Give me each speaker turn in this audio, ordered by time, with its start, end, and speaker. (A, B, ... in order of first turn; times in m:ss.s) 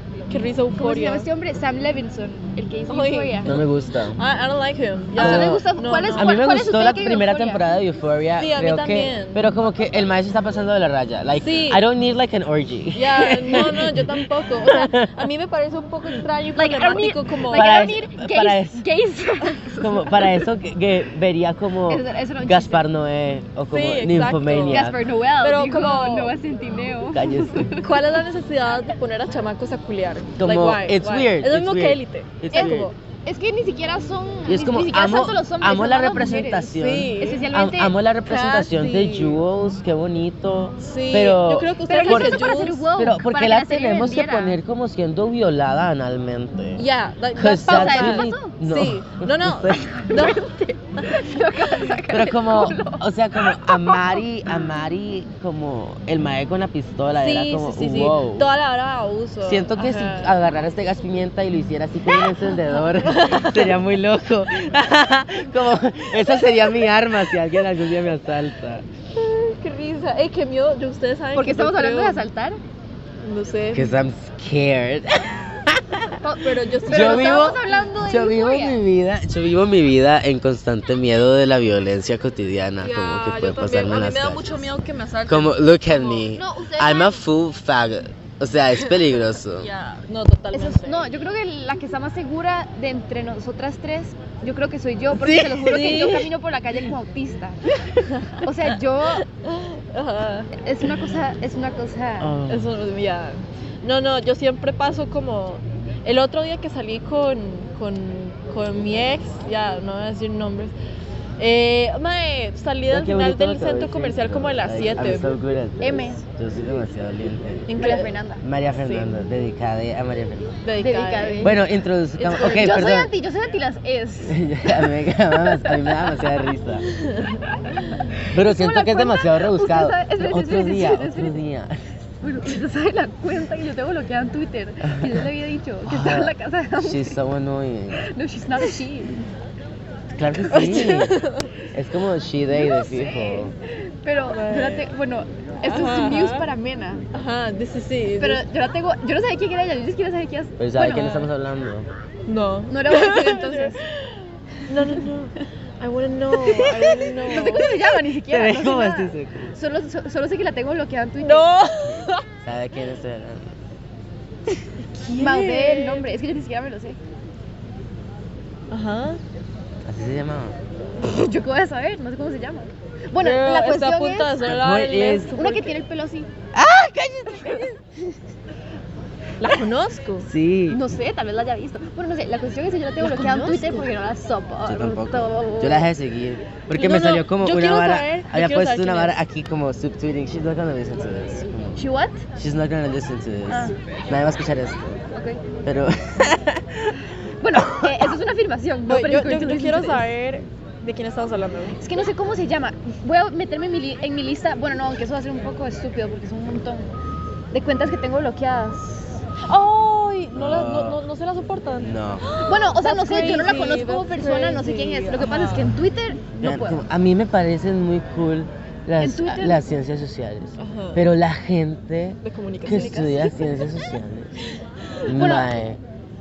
0:00.3-0:01.3 A
0:00.7-0:03.6 B
0:02.9-0:03.6 A
0:03.4-0:04.2 C
0:04.2-0:06.3 A
0:05.2-0:07.6 B
0:05.2-0:15.2 C
0:08.4-0:09.5 A
0:11.4-0:11.8 A
0:13.0-0:17.9 A
0:16.6-0:20.2 B
0:17.5-0:18.8 C
0:19.8-0:25.0 C
0:21.9-0:22.8 B
0:23.7-0:26.4 A
0:24.7-0:28.1 B
0:27.1-0:27.8 C
0:27.8-0:33.0 A
0:30.4-0:32.9 C
0:32.5-0:38.0 B
0:34.5-0:49.8 C
0:36.6-0:37.5 A
0:38.2-0:39.4 A
0:40.8-0:42.9 A
0:41.9-0:44.6 B
0:46.8-0:50.5 A
0:47.6-0:48.5 B
0:49.9-0:53.0 B
0:52.1-0:58.5 C
0:53.6-0:54.2 B
0:57.1-1:00.4 A
0:59.4-1:08.9 C
1:02.9-1:03.8 A
1:09.2-1:12.2 A
1:11.3-1:12.6 B
1:13.2-1:14.0 A
1:13.7-1:16.2 C
1:16.2-1:18.8 B
1:16.4-1:17.6 A
1:16.8-1:24.7 C
1:22.8-1:26.4 A
1:25.3-1:29.7 C
1:26.3-1:27.2 B
1:29.6-1:31.1 A
1:30.5-1:37.6 B
1:35.2-1:36.3 A
1:38.0-1:38.5 A
1:38.3-1:39.2 B
1:39.4-1:40.5 A
1:40.6-1:42.3 B
1:42.2-1:42.8 C
1:42.5-1:50.7 A
1:51.4-1:55.3 A
1:52.9-1:57.8 C
1:55.8-1:56.2 B
1:57.7-1:58.2 A
1:57.8-1:58.4 B
1:58.4-2:00.6 C
1:58.8-1:59.1 A
2:00.6-2:01.6 A
2:00.8-2:01.6 B
2:01.4-2:03.1 C
2:02.2-2:02.9 A
2:02.3-2:04.9 B
2:04.3-2:06.9 C
2:05.5-2:05.9 B
2:07.0-2:07.3 A
2:08.3-2:11.8 C
2:08.3-2:11.4 B
2:12.2-2:17.2 B
2:14.9-2:15.2 C
2:15.8-2:18.0 C
2:18.0-2:19.2 B
2:20.2-2:21.2 C
2:20.5-2:21.5 A
2:21.7-2:23.5 C
2:22.5-2:27.0 B
2:24.3-2:24.9 A
2:25.6-2:26.5 A
2:27.1-2:28.4 A
2:28.2-2:31.2 B
2:30.6-2:31.9 C
2:30.8-2:31.2 A
2:32.3-2:33.8 A
2:32.7-2:33.8 B
2:34.7-2:37.9 A
2:37.1-2:41.5 B
2:38.3-2:39.6 C
2:41.2-2:42.2 A
2:42.4-2:43.5 C
2:45.0-2:46.1 A
2:45.1-2:47.0 B
2:48.7-2:49.2 A
2:49.8-2:50.6 C
2:51.0-2:54.4 B
2:53.2-2:55.8 A
2:54.4-2:55.4 C
2:55.4-2:56.3 B
2:56.5-2:57.7 C
2:57.4-2:58.1 B
2:59.4-3:00.3 A
3:00.2-3:00.8 C
3:00.7-3:05.9 B
3:03.0-3:03.9 A
3:04.7-3:11.8 C
3:06.7-3:09.2 A
3:11.8-3:12.2 B
3:12.4-3:15.0 C
3:13.5-3:13.8 B
3:15.1-3:15.4 B
3:15.6-3:17.0 C
3:17.4-3:20.1 B
3:17.6-3:18.1 C
3:18.9-3:21.8 A
3:21.8-3:27.0 B
3:27.5-3:29.2 B
3:29.4-3:35.8 A
3:30.3-3:31.0 C
3:31.8-3:32.2 C
3:32.4-3:36.8 B
3:36.4-3:44.3 C
3:39.0-3:39.6 B
3:40.6-3:41.0 A
3:42.2-3:43.3 A
3:45.0-3:45.8 C
3:45.2-3:45.5 B